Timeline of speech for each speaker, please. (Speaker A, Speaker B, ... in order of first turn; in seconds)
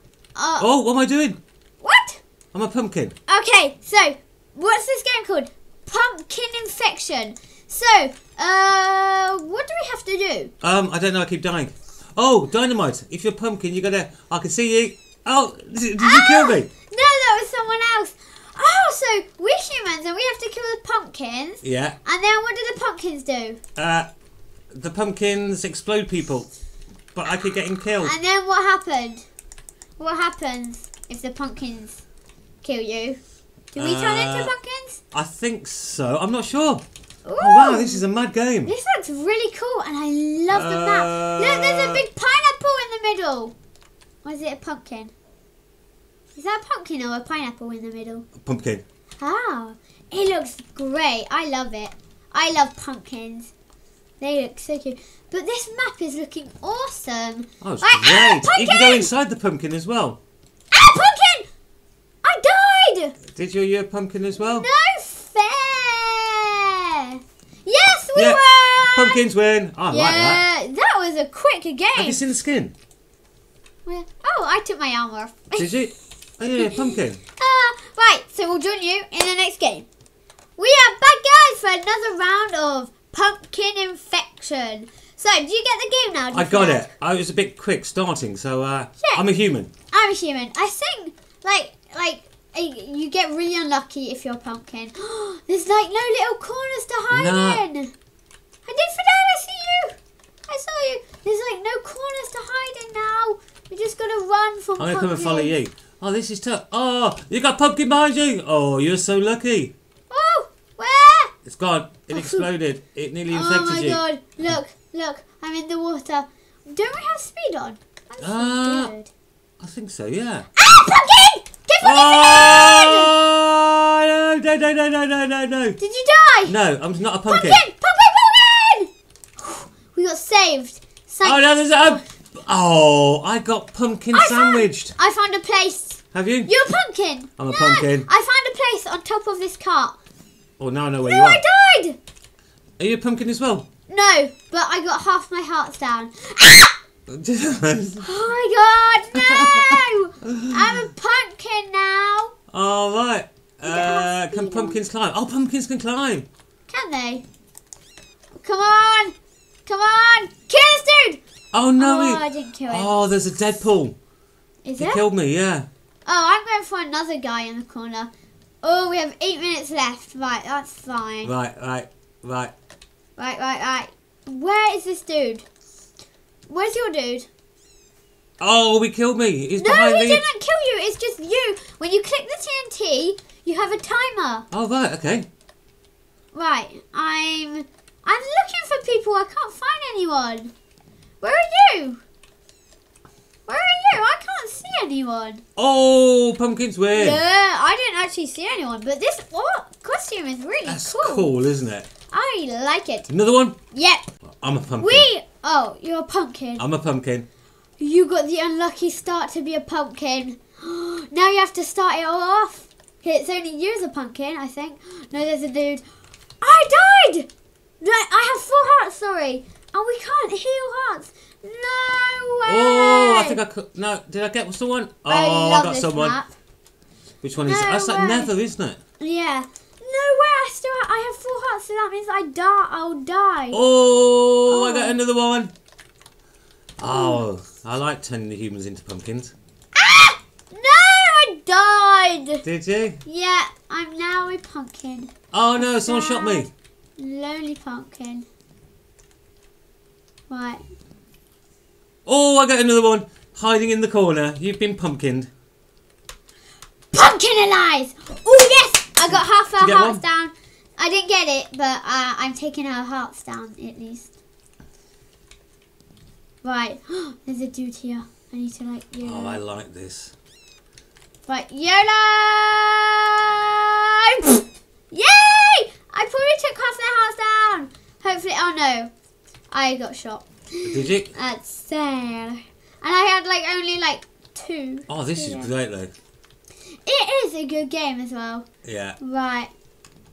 Speaker A: 0.3-0.7, 1.8-2.2, 3.3-10.5, 16.0-23.6, 28.0-29.2, 30.0-32.0, 32.6-33.2, 33.7-35.0, 37.2-38.0, 38.6-43.5, 44.2-45.1, 46.4-48.3, 49.2-53.5, 54.2-59.1, 60.7-61.5, 62.2-63.2, 64.4-69.2, 69.9-72.2, 73.9-75.8, 76.5-79.9, 80.6-86.9, 89.9-97.9, 98.7-100.0, 100.5-105.5, 110.1-111.3, 112.1-112.5, 113.3-119.1, 120.5-123.1, 125.8-126.6, 127.3-132.1, 134.1-140.0, 141.0-142.0, 143.9-146.8, 148.0-152.3, 153.7-154.8, 156.7-157.2, 158.3-159.2, 159.7-161.2, 161.8-162.9, 164.7-165.0, 166.1-168.1, 168.6-171.3, 173.2-175.5, 176.5-177.3, 179.6-184.5, 186.3-190.5, 191.2-192.0, 193.5-195.4, 196.9-201.3, 202.1-203.1, 203.7-204.1, 204.8-206.6, 207.8-215.8, 216.4-217.3, 217.8-223.4, 225.1-226.3, 227.4-228.3, 229.0-233.6, 234.5-235.0, 236.8-237.2, 239.8-242.4, 243.1-248.3, 250.3-250.6, 256.9-264.1, 266.4-269.4, 271.3-278.9, 279.5-285.5, 286.9-288.5, 289.0-289.5
Speaker B: 0.6-1.4, 2.5-3.2, 10.6-16.7, 21.6-22.0, 23.8-24.1, 24.7-26.5, 27.1-28.1, 33.8-34.5, 35.1-36.8, 37.4-38.8, 40.5-42.0, 48.4-48.8, 57.6-60.2, 63.3-64.7, 68.2-70.4, 72.0-72.7, 75.6-77.2, 86.3-89.7, 97.1-97.6, 104.8-109.7, 111.5-114.0, 118.2-118.9, 119.6-120.5, 121.8-125.8, 126.5-127.6, 131.2-134.9, 136.1-136.5, 137.4-138.1, 140.6-141.4, 142.8-143.7, 147.1-148.1, 149.2-150.8, 152.5-156.3, 161.5-164.0, 164.8-165.7, 171.2-172.5, 178.4-180.2, 184.5-185.3, 195.6-197.2, 200.7-201.9, 203.1-203.6, 204.4-205.1, 206.6-207.3, 222.5-226.2, 227.2-228.8, 233.5-235.5, 236.8-239.3, 242.4-243.0, 245.3-246.5, 252.1-255.3, 259.6-260.0, 269.0-270.1, 280.6-281.1, 284.9-285.9, 288.6-289.0